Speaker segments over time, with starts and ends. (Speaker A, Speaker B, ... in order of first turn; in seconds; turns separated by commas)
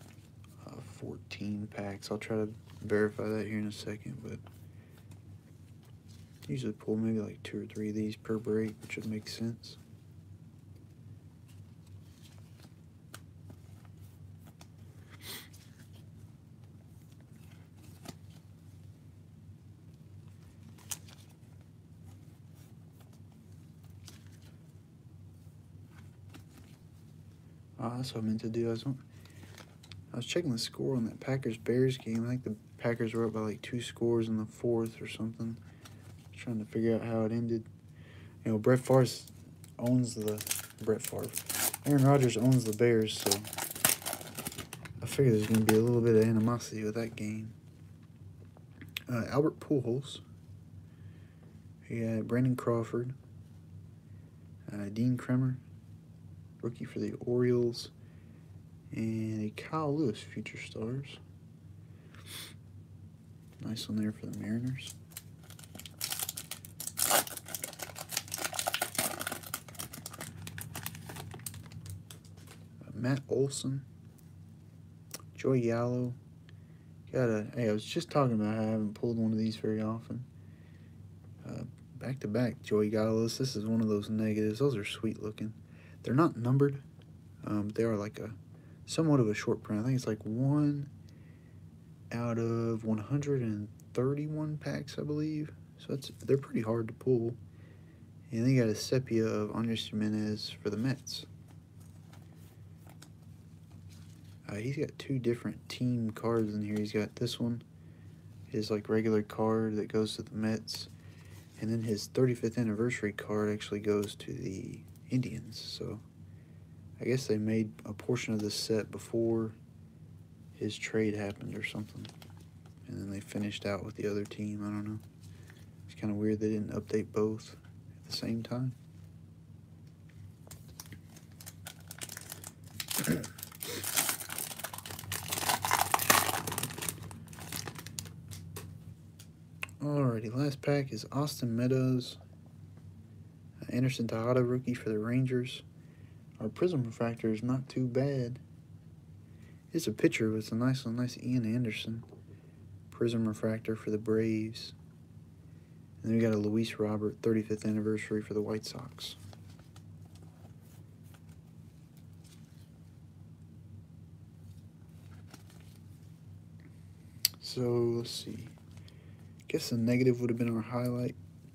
Speaker A: 0.6-4.4, Speaker A: 6.5-9.8, Speaker A: 27.8-29.0, Speaker A: 30.1-35.6, Speaker A: 36.3-37.7, Speaker A: 38.4-43.5, Speaker A: 45.0-47.5, Speaker A: 49.1-50.2, Speaker A: 51.9-53.1, Speaker A: 54.7-55.6, Speaker A: 56.6-57.9, Speaker A: 58.9-61.2, Speaker A: 63.6-64.9, Speaker A: 72.8-73.9, Speaker A: 75.3-76.2, Speaker A: 77.1-80.3, Speaker A: 81.4-86.8, Speaker A: 87.4-90.9, Speaker A: 92.1-97.4, Speaker A: 98.3-101.3, Speaker A: 104.4-107.6, Speaker A: 108.5-110.9, Speaker A: 111.6-116.0, Speaker A: 117.0-119.5, Speaker A: 120.5-122.1, Speaker A: 122.8-125.0, Speaker A: 125.9-128.8, Speaker A: 139.8-142.2, Speaker A: 143.7-145.6, Speaker A: 146.4-148.4, Speaker A: 149.7-152.1, Speaker A: 152.9-154.7, Speaker A: 156.0-159.2, Speaker A: 167.4-168.6, Speaker A: 169.5-171.2